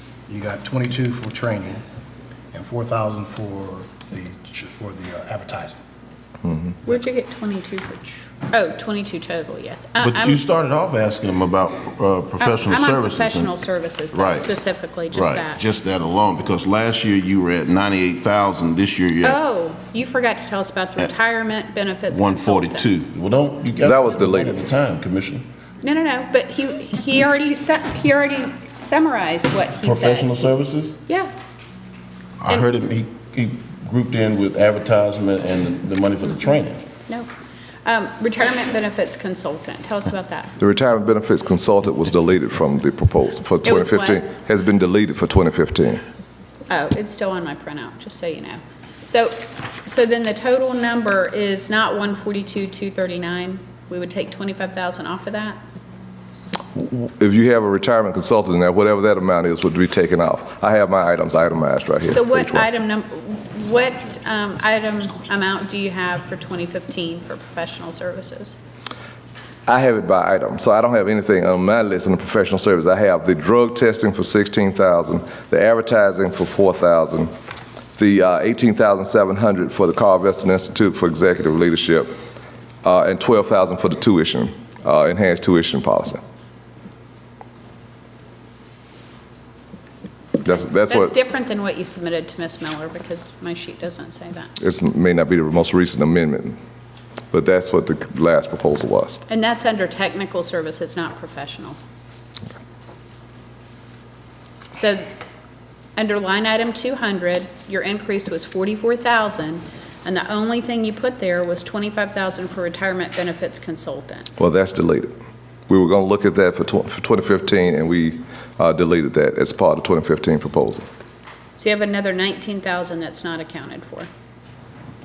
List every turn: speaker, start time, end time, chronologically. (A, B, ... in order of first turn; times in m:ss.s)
0:00.3-0:01.8 A
0:02.5-0:05.8 A
0:06.8-0:10.4 B
0:10.0-0:13.5 C
0:12.4-0:15.6 B
0:14.1-0:14.5 C
0:15.1-0:19.4 C
0:19.2-0:22.9 B
0:22.1-0:25.4 C
0:23.8-0:24.8 D
0:25.8-0:30.5 B
0:29.8-0:31.0 C
0:32.4-0:36.8 C
0:37.8-0:40.5 B
0:40.6-0:46.0 D
0:43.6-0:44.3 B
0:46.7-0:55.6 B
0:56.7-1:02.7 D
1:02.1-1:08.6 B
1:09.7-1:17.3 D
1:18.0-1:22.2 D
1:22.8-1:26.2 D
1:30.4-1:31.1 D
1:30.9-1:34.5 B
1:34.6-1:36.6 D
1:37.3-1:39.2 D
1:39.3-1:41.8 B
1:44.7-1:45.1 B
1:46.0-1:54.3 B
1:54.4-1:55.1 D
1:55.7-2:00.9 D
2:01.6-2:04.1 B